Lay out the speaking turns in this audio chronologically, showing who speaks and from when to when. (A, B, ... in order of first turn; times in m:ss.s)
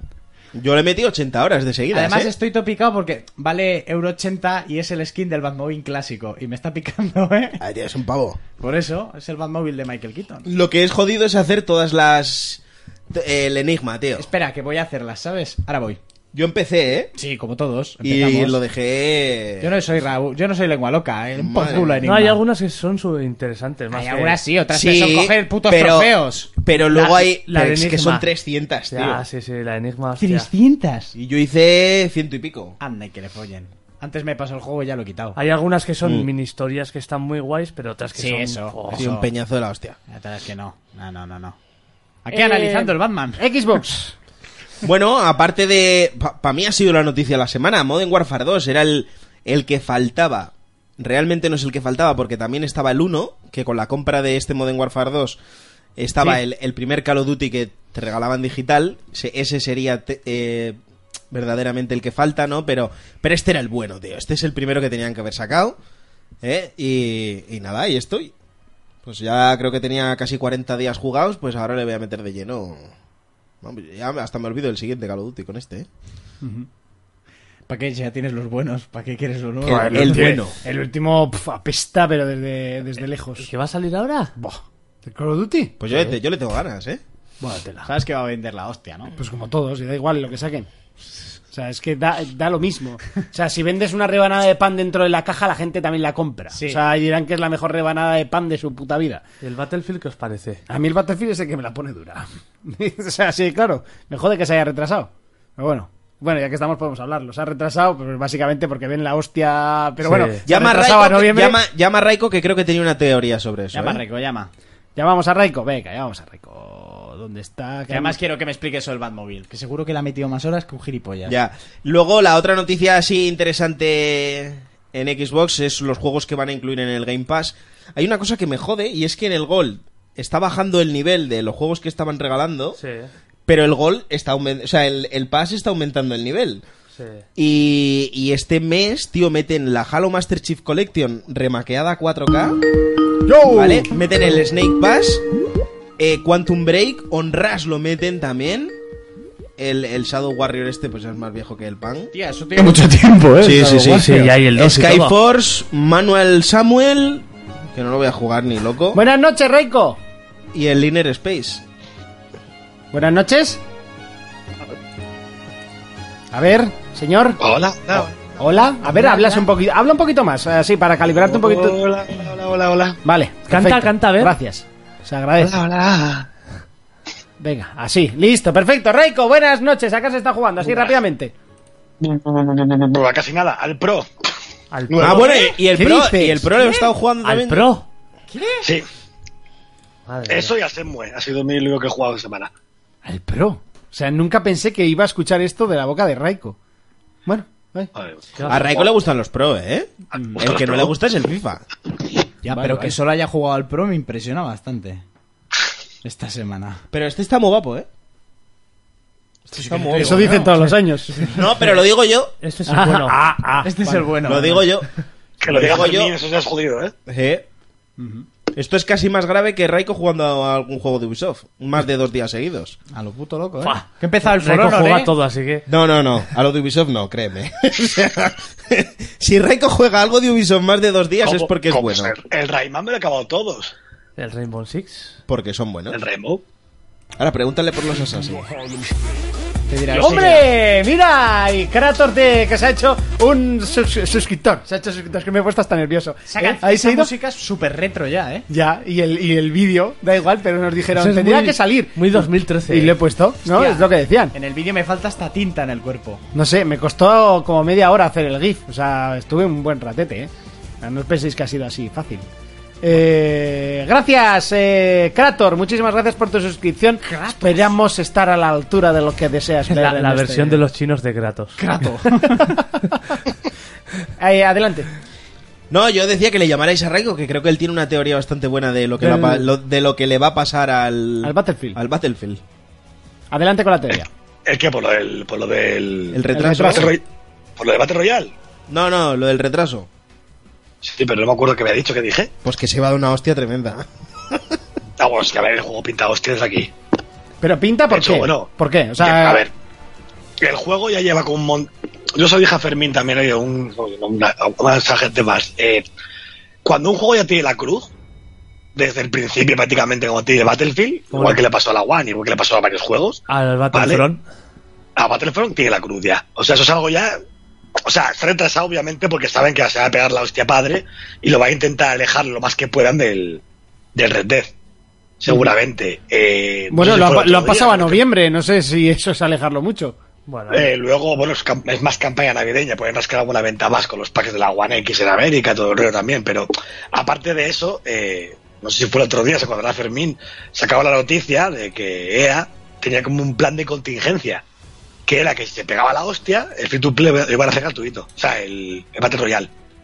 0:00.5-0:02.3 A
0:01.9-0:07.6 B
0:07.6-0:08.4 A
0:08.6-0:10.5 B
0:10.4-0:14.3 A
0:14.2-0:16.0 B
0:16.3-0:17.1 A
0:17.2-0:18.6 B
0:18.0-0:19.8 A
0:19.6-0:22.4 B
0:21.4-0:22.0 A
0:22.0-0:24.4 C
0:23.9-0:26.5 B
0:24.7-0:29.2 A
0:26.9-0:28.3 C
0:28.9-0:30.5 C
0:30.2-0:31.1 B
0:31.1-0:32.8 A
0:32.8-0:35.4 B
0:35.4-0:39.1 C
0:36.0-0:36.3 A
0:38.2-0:39.3 B
0:38.9-0:40.0 A
0:40.1-0:41.6 B
0:42.2-0:43.4 B
0:42.3-0:44.1 D
0:44.8-0:55.4 A
0:56.0-1:00.8 A
1:01.3-1:05.8 A
1:06.4-1:08.3 A
1:09.0-1:12.9 A
1:13.6-1:15.9 A
1:16.4-1:16.7 D
1:17.7-1:20.4 B
1:19.6-1:20.6 A
1:19.6-1:23.5 D
1:23.4-1:24.3 C
1:24.4-1:26.1 D
1:25.8-1:27.0 A
1:27.4-1:27.9 D
1:27.8-1:29.1 B
1:29.2-1:30.7 D
1:31.5-1:39.2 D
1:36.5-1:36.8 B
1:39.4-1:40.6 C
1:40.7-1:51.6 D
1:50.0-1:50.4 C
1:50.4-1:54.0 A
1:53.7-1:54.5 B
1:55.0-1:58.2 D
1:57.9-2:01.4 B
2:01.2-2:12.8 A
2:12.8-2:13.1 C
2:13.5-2:16.6 A
2:16.9-2:17.2 C
2:17.4-2:22.6 A
2:23.2-2:23.9 D
2:23.5-2:25.2 A
2:26.0-2:28.7 A
2:29.6-2:32.1 A
2:32.1-2:34.3 B
2:33.4-2:39.0 A
2:34.0-2:35.1 C
2:38.9-2:40.0 D
2:40.5-2:41.6 A
2:42.9-2:43.6 D
2:46.3-2:47.4 D
2:47.4-2:48.4 E
2:48.4-2:51.8 D
2:48.9-2:49.4 B
2:51.2-2:53.0 E
2:53.0-2:55.6 D
2:53.5-2:54.4 C
2:55.4-2:56.3 E
2:57.4-3:01.3 D
3:02.0-3:04.1 E
3:04.7-3:05.4 C
3:04.9-3:05.5 E
3:05.0-3:07.7 A
3:05.7-3:06.5 D
3:06.6-3:06.9 B
3:07.2-3:07.8 C
3:08.3-3:08.7 B
3:10.1-3:10.5 C
3:10.3-3:12.5 E
3:13.0-3:16.6 D
3:17.2-3:17.9 D
3:18.0-3:18.9 E
3:18.4-3:18.7 C
3:18.5-3:21.6 A
3:20.4-3:20.9 E
3:22.4-3:25.0 B
3:22.5-3:22.9 D
3:26.0-3:26.8 B
3:26.9-3:27.9 A
3:29.5-3:31.6 B
3:29.5-3:30.3 A
3:29.9-3:31.3 D
3:31.3-3:32.3 A
3:32.4-3:33.2 C
3:32.7-3:34.1 D
3:33.6-3:34.6 B
3:34.2-3:34.9 A
3:35.4-3:36.9 E
3:35.4-3:36.1 A
3:37.1-3:37.4 A
3:38.0-3:38.3 D
3:38.5-3:42.8 A
3:42.9-3:45.1 B
3:43.6-3:45.6 C
3:45.7-3:52.1 A
3:51.2-3:53.7 E
3:54.2-3:55.1 C
3:55.3-3:56.0 A
3:55.9-3:56.4 E
3:57.2-3:58.4 A
3:59.7-4:00.4 B
3:59.9-4:07.1 D
4:06.3-4:08.4 B
4:08.5-4:14.3 D
4:11.0-4:13.0 C
4:13.4-4:16.2 B
4:16.3-4:20.3 D
4:20.8-4:22.2 D
4:22.8-4:30.6 D
4:27.0-4:27.7 B
4:29.7-4:31.6 C
4:31.6-4:32.5 B
4:32.2-4:32.6 D
4:34.2-4:34.9 D
4:35.7-4:42.4 A
4:39.0-4:39.5 D
4:41.2-4:41.8 D
4:43.3-4:44.1 D
4:44.4-4:47.0 E
4:46.1-4:46.9 A
4:46.3-4:46.9 D
4:47.6-4:48.3 E
4:48.7-4:49.9 A
4:50.8-4:52.3 E
4:52.4-4:54.4 A
4:55.0-4:56.7 E
4:57.4-4:59.4 D
4:57.9-4:59.5 E
5:00.4-5:05.8 E
5:06.6-5:07.9 E
5:08.7-5:13.2 E
5:11.1-5:11.4 C
5:13.3-5:14.2 C
5:13.7-5:14.0 E
5:15.0-5:17.1 E
5:17.8-5:23.4 E
5:23.9-5:24.5 E
5:25.2-5:28.0 E
5:25.3-5:25.5 D
5:26.7-5:30.0 D
5:30.3-5:30.7 C
5:30.5-5:44.4 E
5:45.0-5:49.5 E